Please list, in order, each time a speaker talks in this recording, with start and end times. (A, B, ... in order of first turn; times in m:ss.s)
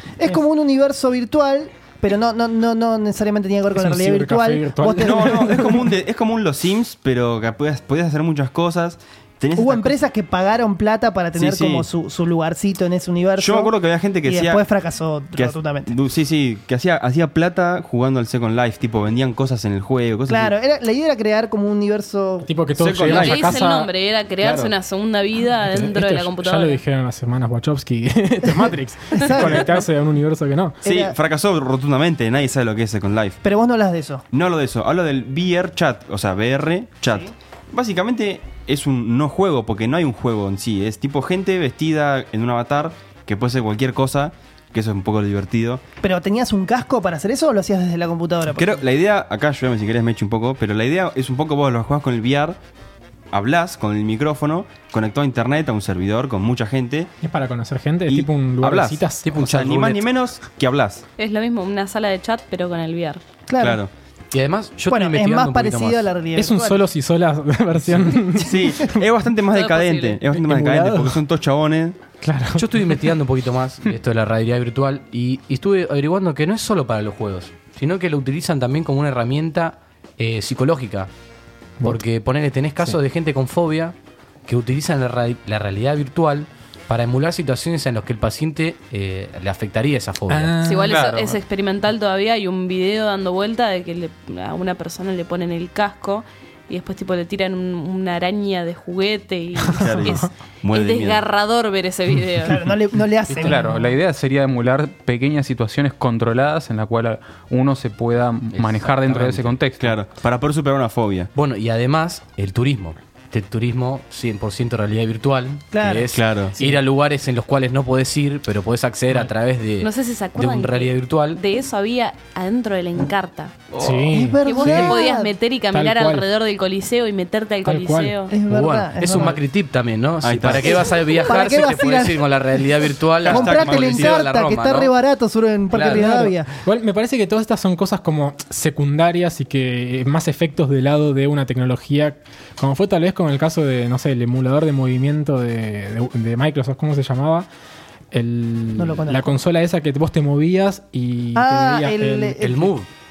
0:00.2-0:05.8 A
0:03.7-0:05.9 B
0:05.0-0:10.0 C
0:09.6-0:15.9 A
0:11.4-0:11.9 C
0:13.4-0:14.6 C
0:15.4-0:20.5 C
0:20.3-0:22.5 A
0:22.4-0:23.9 B
0:22.8-0:23.6 C
0:23.1-0:26.8 D
0:24.4-0:24.7 B
0:25.6-0:30.8 B
0:28.6-0:29.8 A
0:30.8-0:31.2 A
0:30.8-0:33.4 C
0:33.4-0:34.2 A
0:34.3-0:45.8 C
0:46.0-0:48.8 A
0:48.5-0:52.6 C
0:53.3-0:57.1 C
0:57.2-0:59.2 B
0:58.1-1:01.0 C
0:59.2-1:00.1 E
1:01.2-1:03.2 D
1:03.5-1:03.8 A
1:03.6-1:03.9 C
1:04.3-1:06.1 E
1:04.9-1:06.8 A
1:06.4-1:09.1 B
1:08.4-1:12.0 C
1:09.5-1:10.2 D
1:10.3-1:11.2 B
1:12.2-1:12.8 B
1:12.5-1:21.1 E
1:21.8-1:24.0 E
1:24.5-1:30.6 E
1:30.3-1:31.0 B
1:30.6-1:42.7 D
1:30.9-1:31.4 F
1:39.8-1:41.2 C
1:42.4-1:43.7 A
1:43.3-1:50.0 F
1:43.4-1:43.9 B
1:48.5-1:49.5 E
1:49.8-1:51.3 C
1:51.4-2:01.4 E
1:55.7-1:56.1 A
1:56.1-1:56.5 C
1:56.6-1:56.8 B
1:59.8-2:03.8 D
2:03.8-2:05.0 B
2:04.1-2:05.3 A
2:04.4-2:08.4 D
2:05.7-2:06.3 B
2:07.6-2:08.2 B
2:08.3-2:09.4 A
2:08.5-2:14.9 E
2:09.0-2:09.4 B
2:10.2-2:10.9 C
2:10.8-2:12.2 A
2:13.2-2:14.2 C
2:13.2-2:16.5 A
2:15.7-2:16.1 E
2:15.8-2:27.5 B
2:28.1-2:32.5 B
2:28.8-2:29.3 A
2:31.4-2:32.7 A
2:32.4-2:32.9 E